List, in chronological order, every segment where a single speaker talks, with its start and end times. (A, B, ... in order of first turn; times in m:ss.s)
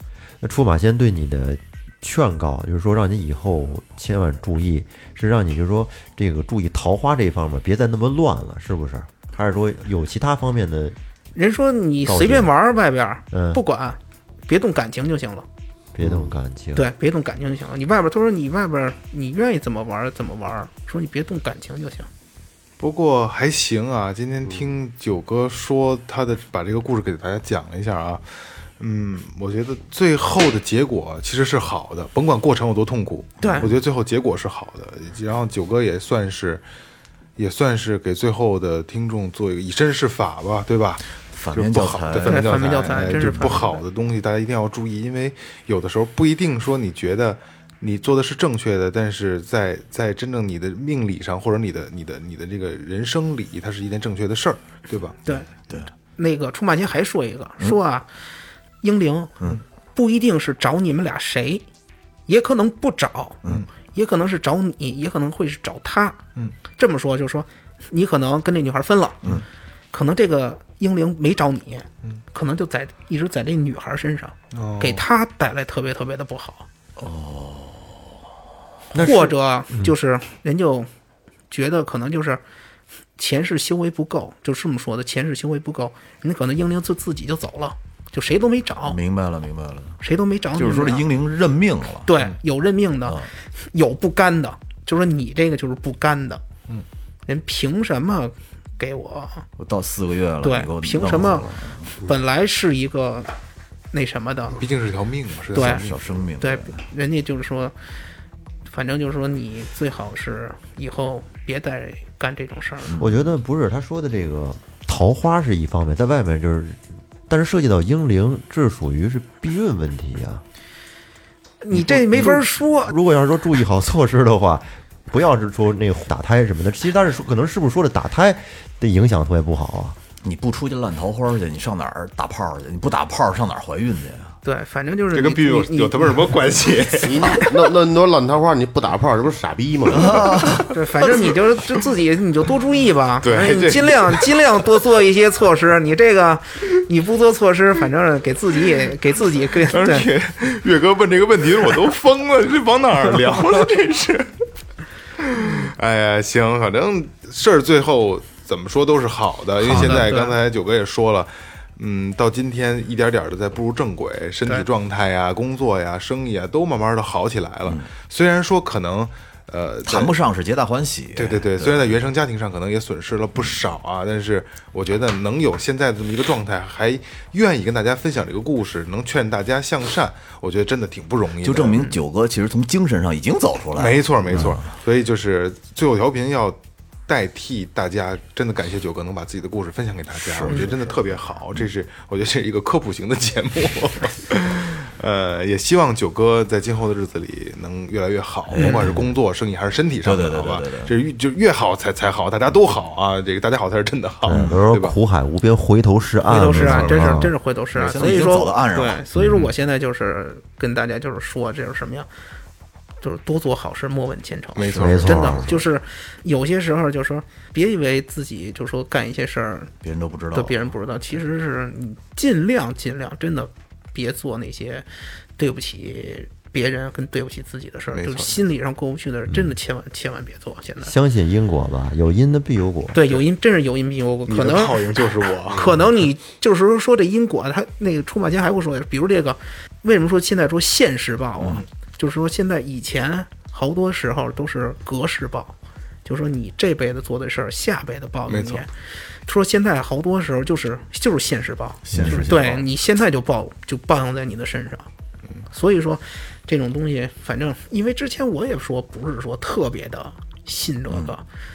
0:00.4-0:11.0 A
0:11.3-0:15.4 B
0:12.0-0:12.5 A
0:13.3-0:13.6 A
0:15.9-0:16.8 A
0:16.7-0:22.1 B
0:22.8-0:36.6 C
0:33.4-0:33.7 B
0:33.4-0:33.7 D
0:37.4-0:55.2 C
0:41.2-0:43.6 D
0:42.2-0:43.8 B
0:56.2-0:58.1 B
0:58.8-0:59.4 B
0:59.9-1:01.6 B
1:02.3-1:03.4 B
1:03.9-1:09.3 B
1:09.9-1:16.7 B
1:14.5-1:15.0 C
1:17.0-1:18.1 D
1:18.9-1:19.9 A
1:18.9-1:20.9 B
1:21.5-1:22.4 B
1:23.2-1:29.0 B
1:28.8-1:30.0 D
1:30.0-1:31.0 B
1:30.5-1:32.1 D
1:32.0-1:36.4 B
1:37.3-1:39.4 B
1:39.6-1:41.9 D
1:40.4-1:43.3 B
1:43.9-1:44.7 B
1:44.6-1:45.9 C
1:45.5-1:47.7 B
1:45.5-1:46.8 D
1:48.6-1:53.0 B
1:52.8-1:53.1 D
1:53.0-2:00.4 A
2:01.6-2:02.9 B
2:01.7-2:10.0 A
2:10.2-2:14.4 D
2:14.4-2:16.3 B
2:15.1-2:17.5 C
2:17.0-2:20.5 E
2:19.9-2:20.7 D
2:20.5-2:21.2 C
2:20.7-2:30.1 B
2:23.2-2:24.5 C
2:29.6-2:34.4 C
2:35.2-2:50.1 C
2:39.6-2:40.4 B
2:49.8-2:52.0 D
2:51.1-3:01.9 C
3:01.4-3:04.7 D
3:03.7-3:25.0 C
3:10.3-3:10.8 D
3:18.5-3:19.0 D
3:18.6-3:18.8 B
3:20.0-3:20.9 D
3:24.2-3:27.3 A
3:24.3-3:24.6 D
3:26.3-3:32.1 B
3:26.5-3:28.0 C
3:27.7-3:29.0 D
3:33.0-3:39.7 B
3:34.5-3:35.6 C
3:34.7-3:35.5 A
3:39.8-3:40.7 D
3:40.3-3:44.8 B
3:45.4-3:50.9 B
3:47.9-3:48.4 C
3:50.8-3:53.1 A
3:52.9-4:08.7 B
3:54.3-3:55.8 C
4:08.3-4:08.7 C
4:09.2-4:14.8 B
4:11.9-4:12.6 D
4:15.5-4:21.2 B